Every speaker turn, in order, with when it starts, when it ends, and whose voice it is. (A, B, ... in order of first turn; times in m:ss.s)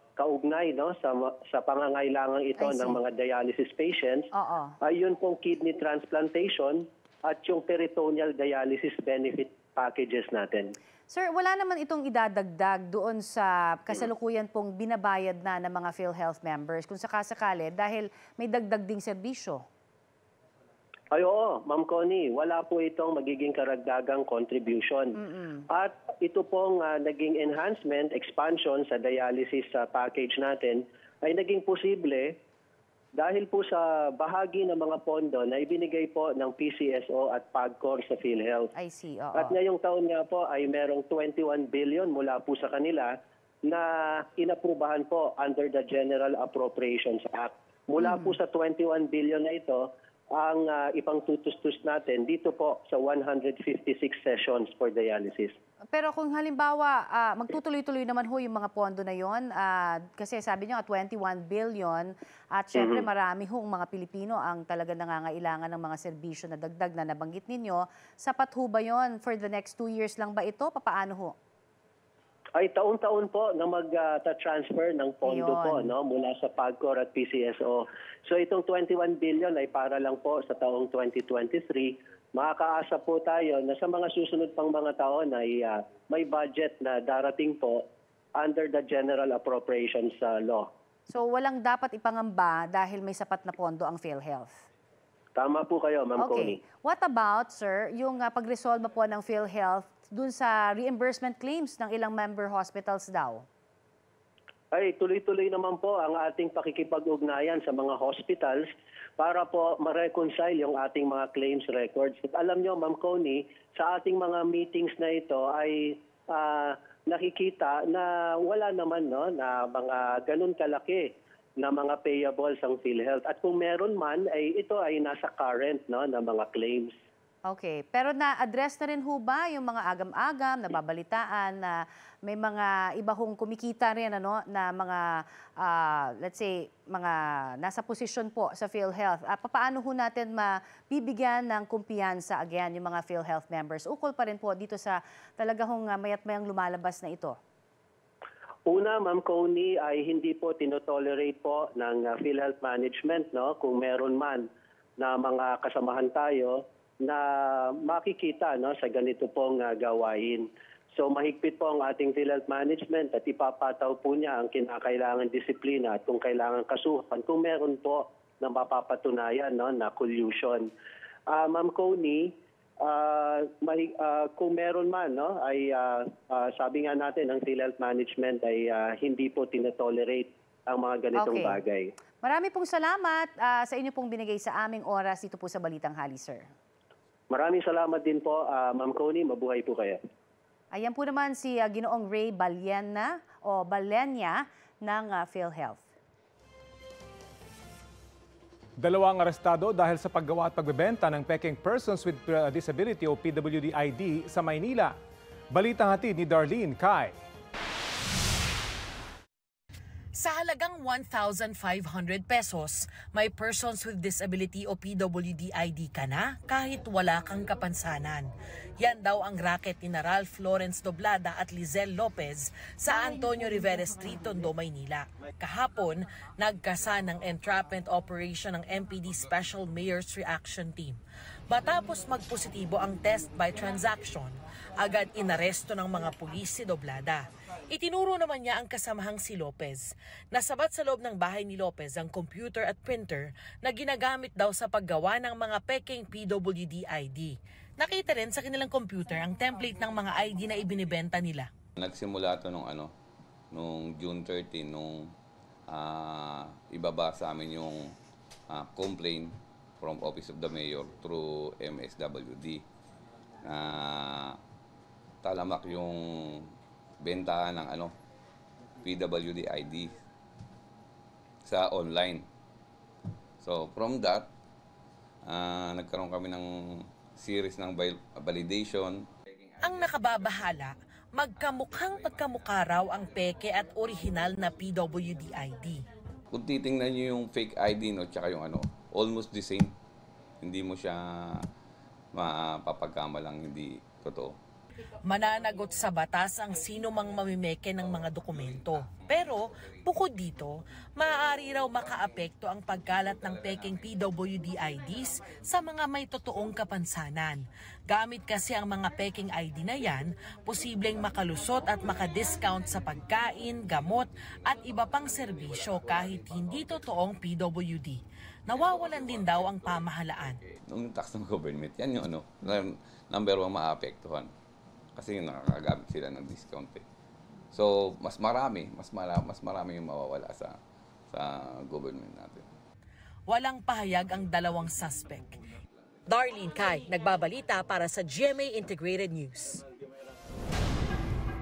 0:00.2-0:04.3 A
0:02.6-0:03.0 B
0:04.3-0:04.8 B
0:04.8-0:10.7 A
0:11.1-0:19.6 B
0:21.1-0:25.2 A
0:25.2-0:25.6 B
0:25.7-0:32.3 A
0:33.2-0:38.7 A
0:38.8-0:39.5 B
0:39.4-0:43.1 A
0:43.7-0:55.6 A
0:48.0-0:48.4 B
0:55.9-1:11.4 B
1:02.8-1:03.0 A
1:12.6-1:30.7 A
1:15.2-1:15.9 B
1:31.1-1:34.5 B
1:35.4-1:36.6 A
1:36.2-1:43.4 B
1:44.7-1:48.7 A
1:49.2-2:01.1 A
2:01.6-2:06.9 A
2:07.5-2:27.4 B
2:28.7-2:34.5 A
2:35.0-2:50.7 A
2:51.3-3:01.9 A
3:01.2-3:01.6 B
3:02.2-3:06.5 B
3:07.3-3:10.0 A
3:10.7-3:15.8 B
3:18.8-3:25.0 C
3:25.5-3:27.2 C
3:30.2-4:11.5 D
4:11.8-4:12.9 E
4:13.5-4:15.1 E
4:15.7-4:17.9 E
4:18.5-4:22.6 E
4:23.4-4:24.4 E
4:25.2-4:26.5 E
4:27.0-4:27.9 E
4:28.8-4:30.0 E
4:31.4-4:32.3 E
4:33.4-4:34.3 E
4:35.3-4:39.0 E
4:39.6-4:45.8 D
4:46.3-4:49.7 E
4:50.4-4:51.5 E
4:52.1-4:54.4 E
4:55.0-5:20.4 D
5:20.7-5:24.3 E
5:25.0-5:26.8 E
5:27.5-5:30.6 E
5:31.1-5:32.5 E
5:33.3-5:35.4 D
5:36.1-5:39.6 D